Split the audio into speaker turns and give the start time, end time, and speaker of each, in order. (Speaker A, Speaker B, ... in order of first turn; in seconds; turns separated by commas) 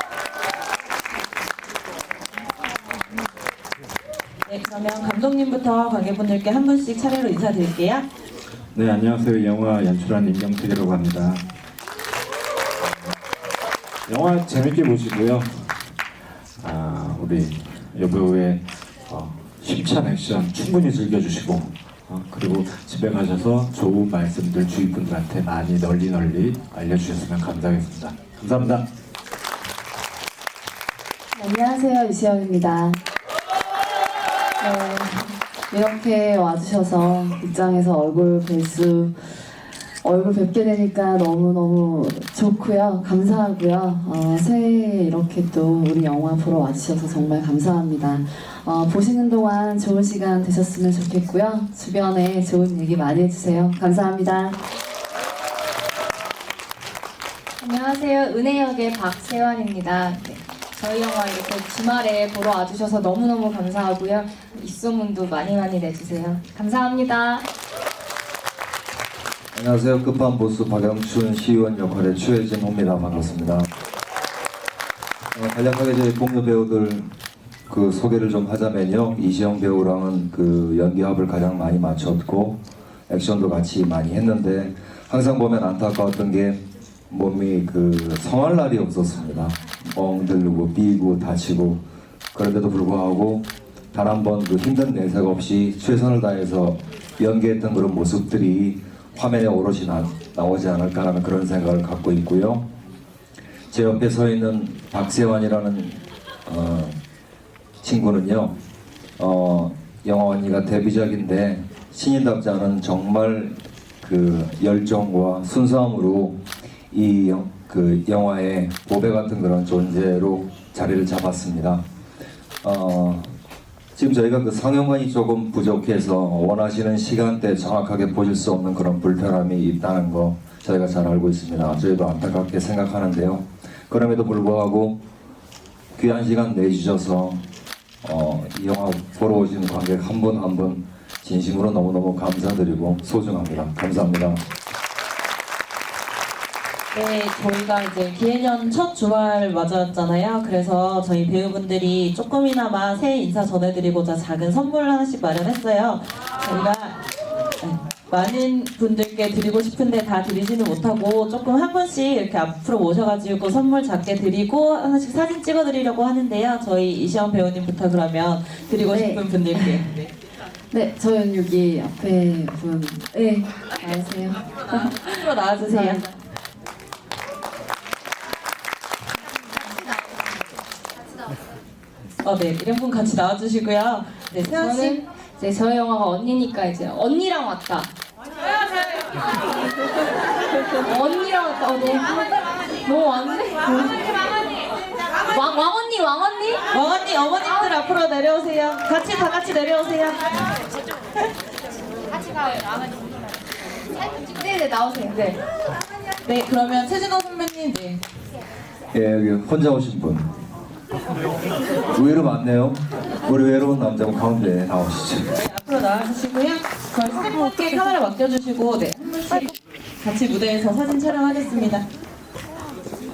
Speaker A: 4.5-8.0, Speaker B: 8.7-11.4, Speaker B: 14.1-15.7, Speaker B: 16.6-28.9, Speaker C: 31.4-33.0, Speaker C: 34.6-39.1, Speaker C: 40.0-54.5, Speaker D: 57.6-67.5, Speaker E: 69.5-73.7, Speaker E: 75.3-77.1, Speaker E: 77.7-102.6, Speaker E: 103.7-107.0, Speaker E: 107.8-108.5, Speaker E: 109.2-121.8, Speaker E: 122.6-123.3, Speaker E: 123.9-135.0, Speaker E: 135.9-137.4, Speaker E: 138.0-144.4, Speaker A: 146.9-157.0, Speaker A: 157.6-170.1, Speaker C: 168.9-169.8, Speaker C: 170.7-174.9, Speaker A: 174.7-176.1, Speaker C: 175.6-176.1, Speaker A: 182.2-185.0, Speaker D: 184.5-187.9, Speaker D: 190.9-194.0, Speaker D: 195.3-196.6, Speaker A: 196.7-200.5, Speaker D: 204.3-205.4, Speaker A: 206.2-208.0, Speaker E: 208.9-210.3, Speaker E: 211.9-215.3, Speaker A: 215.4-221.8